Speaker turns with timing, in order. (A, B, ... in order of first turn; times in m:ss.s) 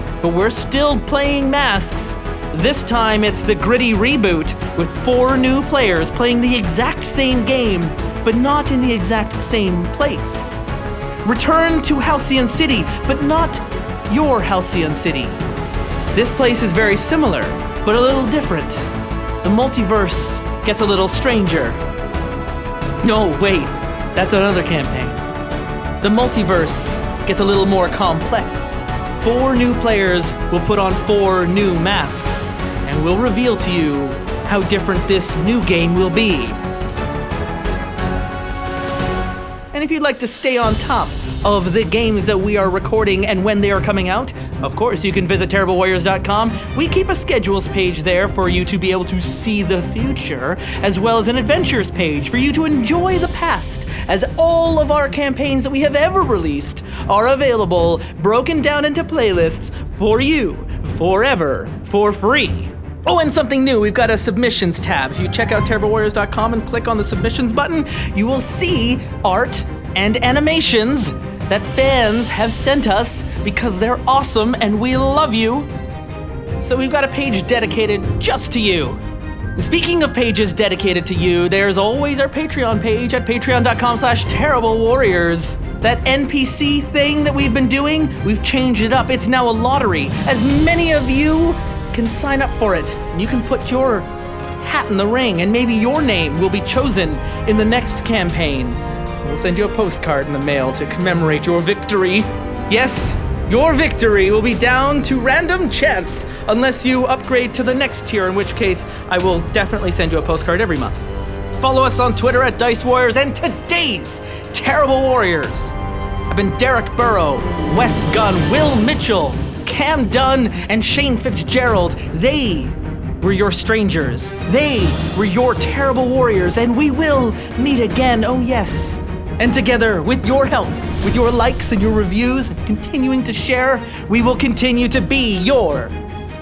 0:00.2-0:10.5 A
0:11.2-0:15.4 A
0:16.1-0:18.8 A
0:19.4-0:21.8 A
0:23.0-0:25.2 A
0:26.0-0:36.6 A
0:39.7-1:15.7 A
1:16.6-1:19.0 A
1:19.5-1:51.1 A
1:51.6-1:55.7 A
1:56.3-2:16.0 A